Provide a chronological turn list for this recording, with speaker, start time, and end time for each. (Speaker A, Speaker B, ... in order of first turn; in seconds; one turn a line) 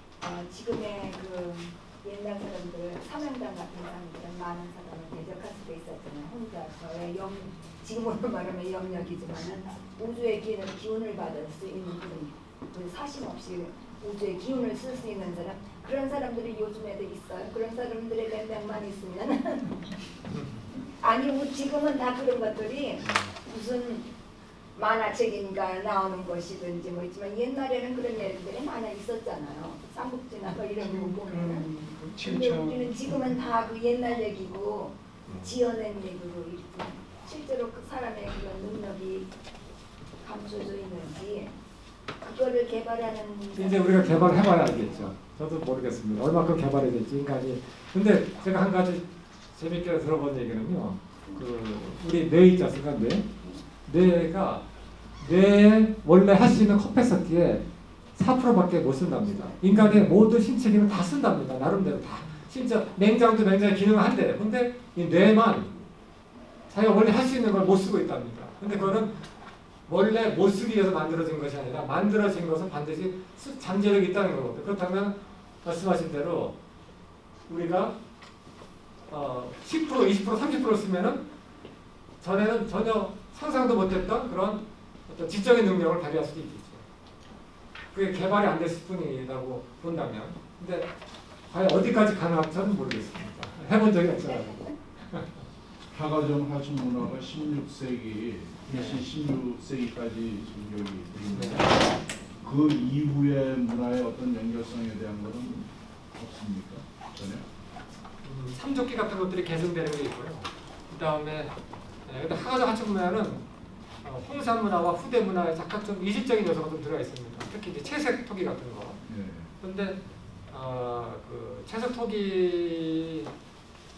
Speaker A: 0.2-19.8
Speaker A: 21.0-24.1
Speaker A: 24.8-31.7
Speaker B: 30.7-33.4
Speaker A: 32.2-39.3
Speaker C: 35.3-35.5
Speaker A: 40.2-41.5
Speaker A: 42.2-45.1
Speaker C: 43.5-53.2
Speaker C: 53.9-54.6
Speaker C: 55.2-57.6
Speaker C: 58.1-65.8
Speaker C: 66.7-69.2
Speaker C: 69.9-76.5
Speaker C: 77.5-77.9
Speaker C: 79.1-81.2
Speaker C: 82.2-86.8
Speaker C: 87.9-90.9
Speaker C: 91.5-95.3
Speaker D: 95.9-107.4
Speaker C: 98.7-99.0
Speaker C: 101.3-101.8
Speaker C: 108.2-111.5
Speaker C: 112.0-113.4
Speaker C: 114.0-119.0
Speaker D: 119.0-119.5
Speaker C: 119.6-120.0
Speaker C: 120.5-123.3